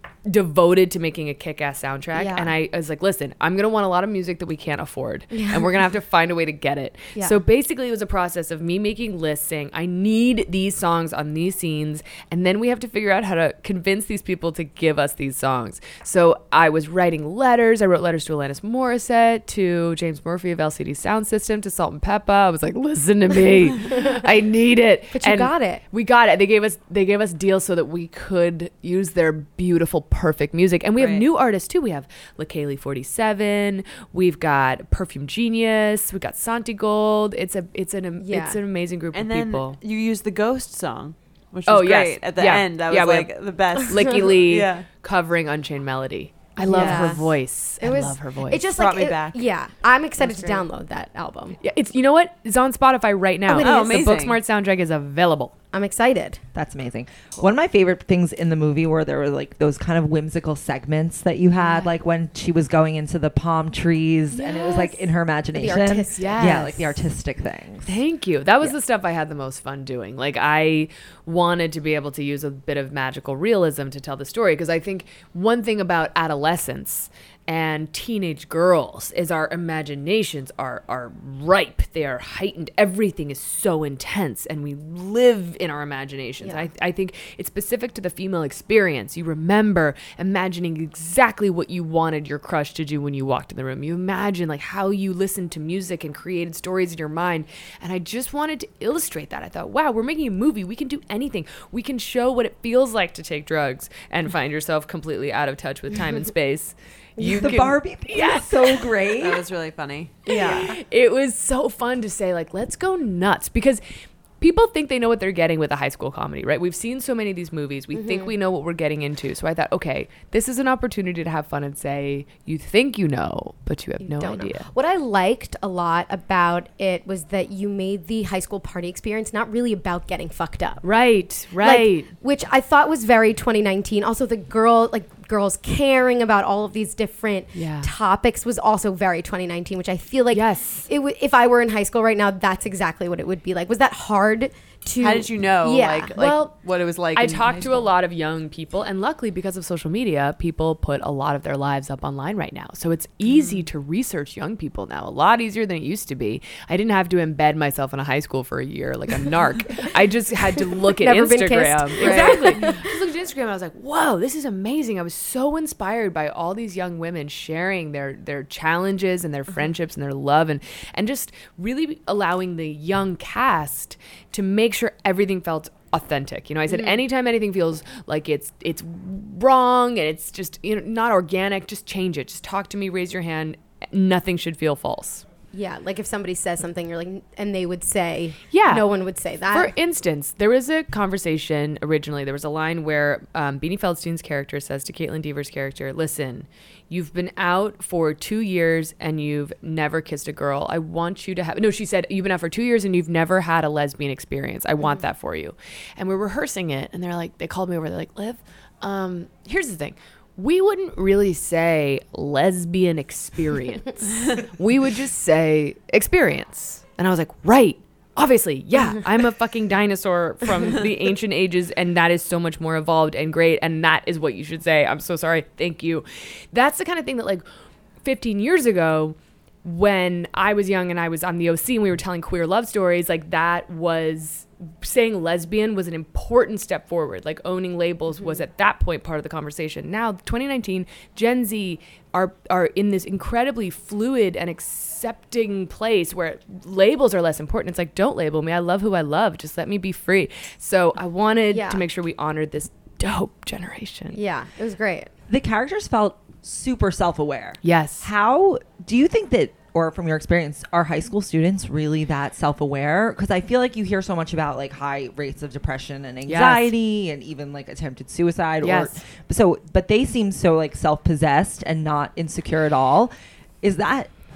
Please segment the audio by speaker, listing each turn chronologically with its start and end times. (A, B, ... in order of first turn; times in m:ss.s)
0:00.3-0:39.8 A
0:02.1-0:02.6 B
0:05.3-0:05.8 B
0:25.1-0:25.8 B
0:31.0-0:31.2 C
0:38.2-0:38.6 B
0:39.1-0:44.9 C
0:41.7-0:48.7 A
0:46.6-0:51.6 B
0:46.8-0:47.0 C
0:48.8-0:49.4 C
0:50.2-0:50.6 A
0:51.6-0:55.6 A
0:53.5-0:54.0 B
0:53.6-0:54.4 C
0:55.7-0:56.4 B
0:56.5-1:08.0 D
1:01.6-1:01.9 B
1:04.3-1:06.9 B
1:06.2-1:06.9 A
1:07.8-1:49.0 A
1:47.2-1:49.4 D
1:49.2-1:50.7 C
1:50.3-1:53.8 A
1:54.4-2:04.7 A
1:57.9-1:58.3 B
2:04.0-2:10.8 B
2:10.8-2:12.1 A
2:11.6-2:26.3 B
2:17.6-2:17.9 A
2:20.3-2:20.9 A
2:25.0-2:27.9 C
2:26.2-2:26.5 A
2:27.2-3:05.2 A
2:40.7-2:42.9 B
3:05.5-3:09.7 B
3:08.5-3:08.9 A
3:09.5-3:47.4 A
3:48.0-4:14.2 A
4:11.5-4:11.8 B
4:14.1-4:15.1 B
4:15.3-4:34.1 D
4:17.6-4:18.1 A
4:26.3-4:26.7 A
4:28.6-4:29.0 A